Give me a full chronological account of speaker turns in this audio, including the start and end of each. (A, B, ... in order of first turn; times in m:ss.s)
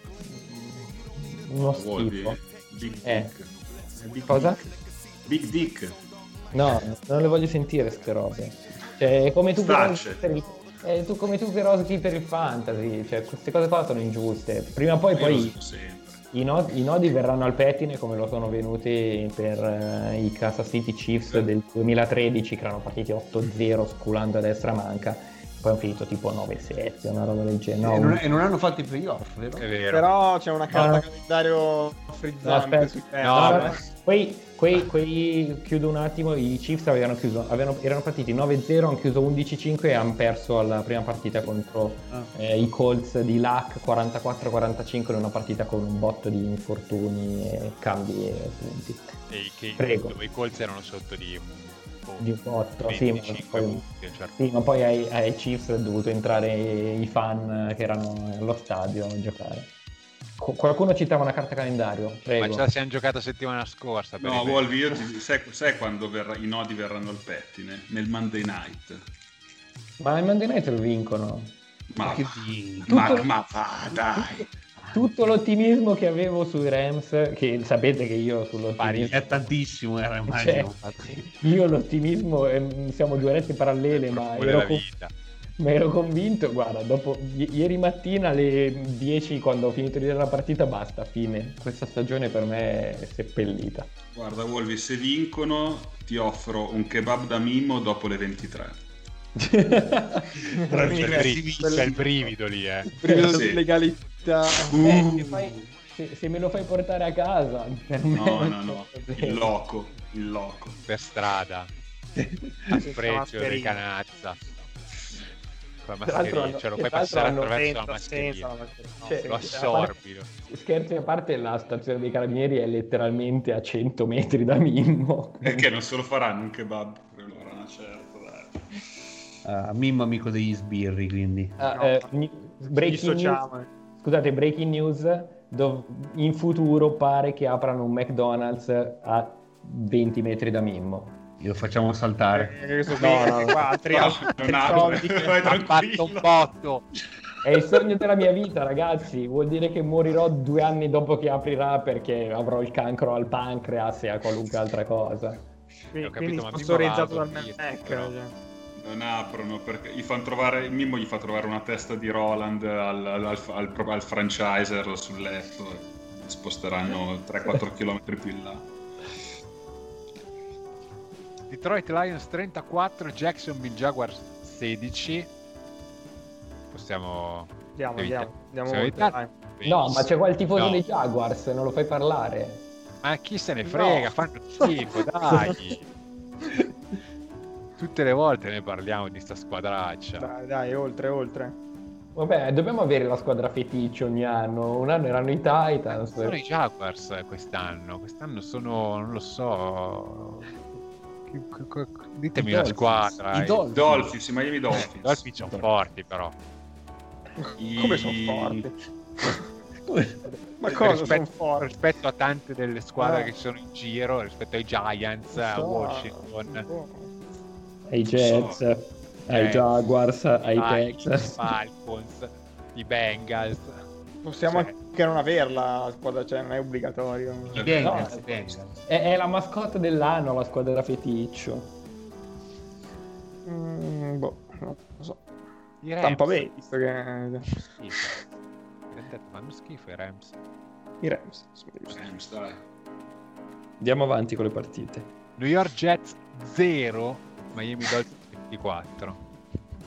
0:00.2-0:02.4 A
0:01.7-0:04.6 B
0:03.0-0:03.3 A
0:04.3-0:04.6 A
0:05.2-0:06.0 B
0:06.5-0:15.6 A
0:09.6-0:10.3 B
0:15.1-0:16.2 B
0:16.3-0:28.2 A
0:27.8-0:29.6 C
0:29.6-0:30.1 D
0:29.9-0:33.8 E
0:30.7-0:31.0 A
0:32.4-0:49.1 A
0:33.2-0:33.8 D
0:49.3-0:52.3 D
0:49.8-0:50.2 A
0:52.2-0:53.8 A
0:52.8-0:54.4 D
0:54.4-0:59.7 A
1:00.4-1:02.6 A
1:02.4-1:05.0 D
1:04.2-1:09.0 B
1:10.0-1:11.6 A
1:11.9-1:12.3 B
1:12.0-1:13.2 C
1:12.8-1:14.5 B
1:12.9-1:13.3 A
1:14.9-1:19.4 A
1:18.8-1:19.5 D
1:19.1-1:21.4 C
1:20.3-1:20.7 A
1:21.2-1:24.8 A
1:23.9-1:25.1 D
1:25.6-1:33.9 A
1:34.1-1:38.8 B
1:39.4-1:40.4 A
1:40.5-1:42.1 E
1:40.7-1:42.1 C
1:40.9-1:43.0 D
1:43.0-1:44.9 E
1:43.2-1:43.7 B
1:44.6-1:45.5 B
1:44.8-1:49.5 A
1:48.1-1:50.8 B
1:50.9-1:51.7 D
1:52.1-1:52.9 C
1:52.7-1:54.4 D
1:52.7-1:53.8 E
1:55.8-1:58.5 D
1:56.0-1:57.5 A
1:57.5-1:59.6 E
1:59.0-2:05.7 A
1:59.2-2:00.3 D
2:05.4-2:08.8 B
2:09.4-2:11.6 C
2:11.6-2:13.4 A
2:11.7-2:12.1 E
2:12.8-2:13.7 E
2:14.0-2:21.2 A
2:21.4-2:23.3 C
2:22.3-2:25.5 E
2:23.0-2:23.6 A
2:23.9-2:26.5 B
2:25.4-2:26.8 D
2:27.4-2:35.5 A
2:35.9-2:38.3 E
2:36.0-2:38.1 D
2:38.8-2:48.6 B
2:51.5-2:55.3 D
2:56.7-3:00.8 D
2:57.8-2:59.3 E
2:59.6-3:02.6 A
3:03.0-3:05.8 D
3:03.6-3:04.1 E
3:07.8-3:10.3 D
3:10.2-3:11.6 E
3:12.2-3:16.4 A
3:16.0-3:20.5 D
3:21.3-3:23.6 D
3:22.3-3:24.1 C
3:23.7-3:25.3 B
3:24.8-3:26.4 D
3:27.4-3:29.4 E
3:27.6-3:28.6 B
3:29.8-3:31.0 C
3:30.5-3:31.7 E
3:30.7-3:36.6 D
3:33.0-3:33.3 E
3:35.3-3:37.1 E
3:37.9-3:41.5 A
3:38.2-3:38.6 B
3:39.3-3:39.7 D
3:40.5-3:43.8 D
3:44.2-3:48.1 E
3:44.5-3:44.7 D
3:47.5-3:48.8 C
3:47.5-3:47.8 B
3:47.8-3:48.3 A
3:48.8-3:51.7 A
3:53.4-3:55.2 E
3:55.8-3:56.6 D
3:56.0-3:57.6 E
3:57.8-3:58.2 D
3:58.9-4:00.3 D
4:01.0-4:02.0 E
4:01.9-4:02.6 B
4:03.8-4:05.1 A
4:05.4-4:09.2 D